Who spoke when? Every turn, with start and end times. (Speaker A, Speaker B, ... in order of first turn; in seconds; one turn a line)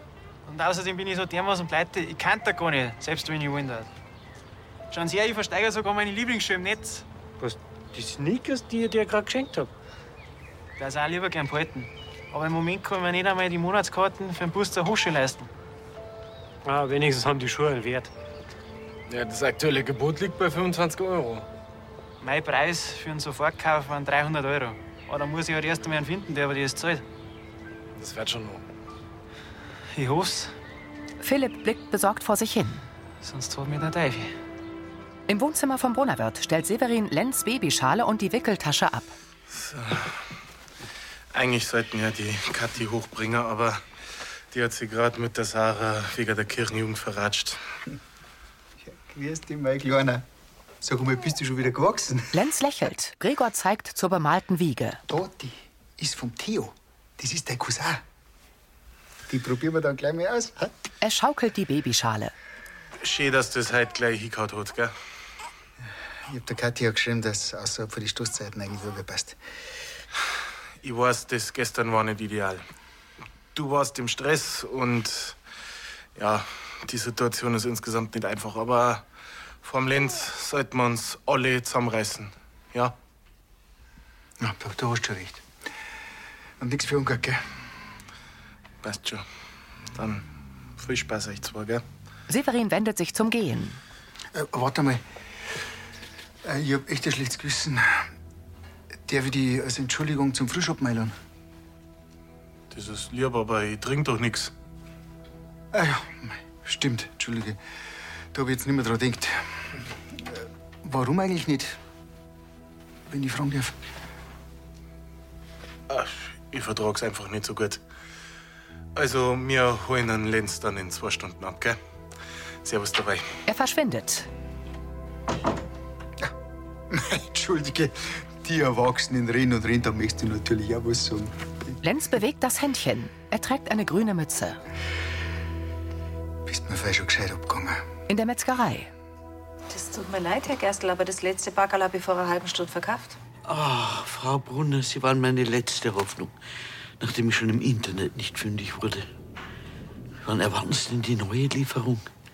Speaker A: 0.5-3.9
Speaker A: 4.9-7.0
Speaker B: 7.4-9.7
Speaker A: 10.8-15.5
Speaker B: 16.6-18.1
Speaker C: 19.1-21.5
Speaker A: 22.2-27.0
Speaker C: 28.0-28.6
Speaker A: 29.9-30.5
Speaker D: 31.2-32.8
Speaker A: 33.2-34.3
Speaker D: 35.3-39.1
Speaker E: 39.5-40.2
Speaker E: 41.3-43.8
Speaker E: 44.5-47.6
Speaker F: 48.8-50.2
Speaker F: 50.8-52.3
Speaker D: 52.3-55.0
Speaker F: 55.1-58.0
Speaker F: 59.3-60.7
Speaker D: 61.0-62.3
Speaker E: 63.0-64.9
Speaker F: 66.3-69.4
Speaker E: 70.8-72.6
Speaker E: 73.5-75.4
Speaker E: 76.2-79.0
Speaker E: 79.6-82.9
Speaker F: 84.4-85.4
Speaker F: 86.6-87.4
Speaker E: 88.8-89.2
Speaker E: 89.9-90.2
Speaker E: 90.8-91.8
Speaker D: 92.3-93.8
Speaker F: 94.3-95.0
Speaker F: 96.4-98.1
Speaker F: 99.1-101.1
Speaker E: 102.7-104.5
Speaker F: 105.7-107.6
Speaker F: 108.3-109.4
Speaker F: 110.8-111.8
Speaker F: 113.1-113.7
Speaker E: 115.9-117.8
Speaker E: 119.0-121.8
Speaker E: 122.6-123.3
Speaker D: 123.5-124.3
Speaker F: 126.9-131.4
Speaker D: 131.8-134.6
Speaker F: 136.5-137.8
Speaker D: 138.1-138.9
Speaker G: 139.7-143.2
Speaker H: 143.5-146.3
Speaker H: 147.0-149.1
Speaker H: 150.2-152.1